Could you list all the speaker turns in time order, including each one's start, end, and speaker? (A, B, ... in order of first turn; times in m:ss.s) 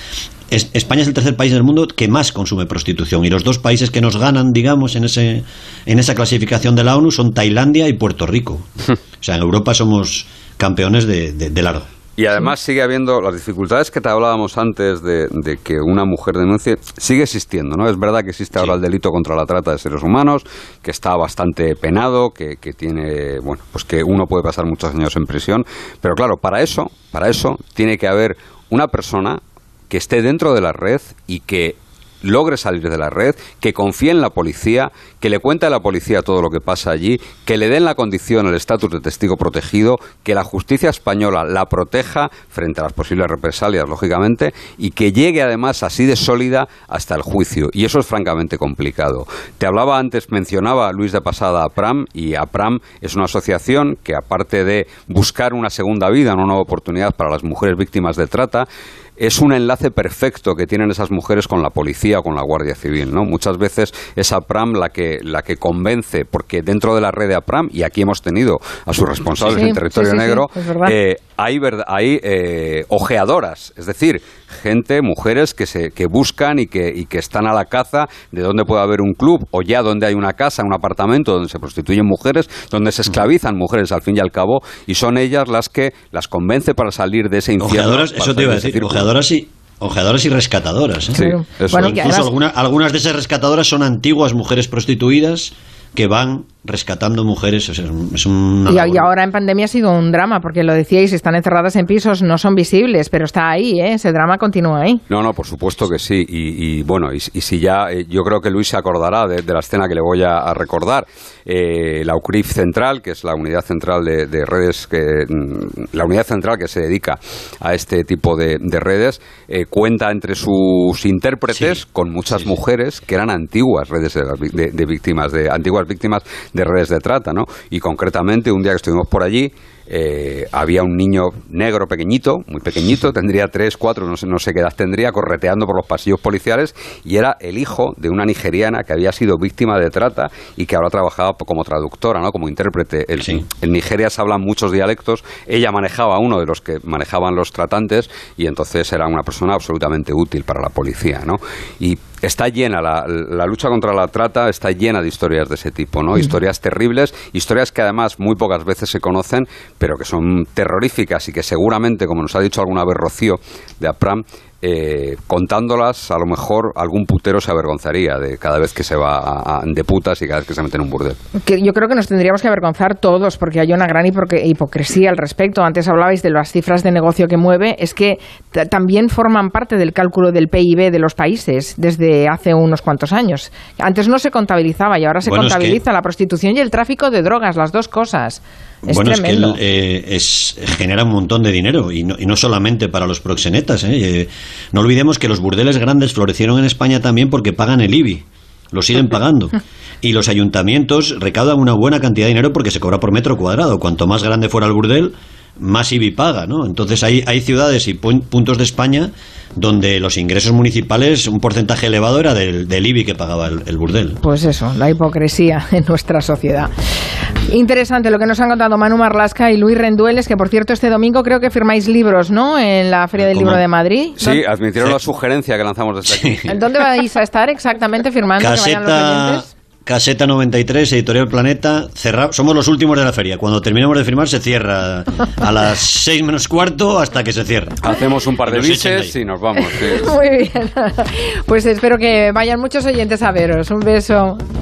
0:00.5-0:08.7 A
0:09.2-0:11.8 A
0:12.2-0:58.6 B
0:59.2-1:29.1 B
1:09.4-1:10.9 C
1:27.6-1:39.1 A
1:31.1-1:31.9 B
1:31.1-1:32.3 C
1:38.7-1:45.0 C
1:45.1-2:51.2 B
2:51.4-3:09.6 C
3:05.2-3:05.8 A
3:08.8-3:34.2 A
3:34.2-3:36.7 C
3:37.4-3:44.4 C
3:43.2-3:43.6 A
3:44.2-3:46.5 B
3:46.1-3:46.5 A
3:46.4-3:49.5 C
3:48.4-3:57.8 A
3:57.8-4:00.1 B
3:58.4-3:59.2 A
3:59.6-4:04.4 C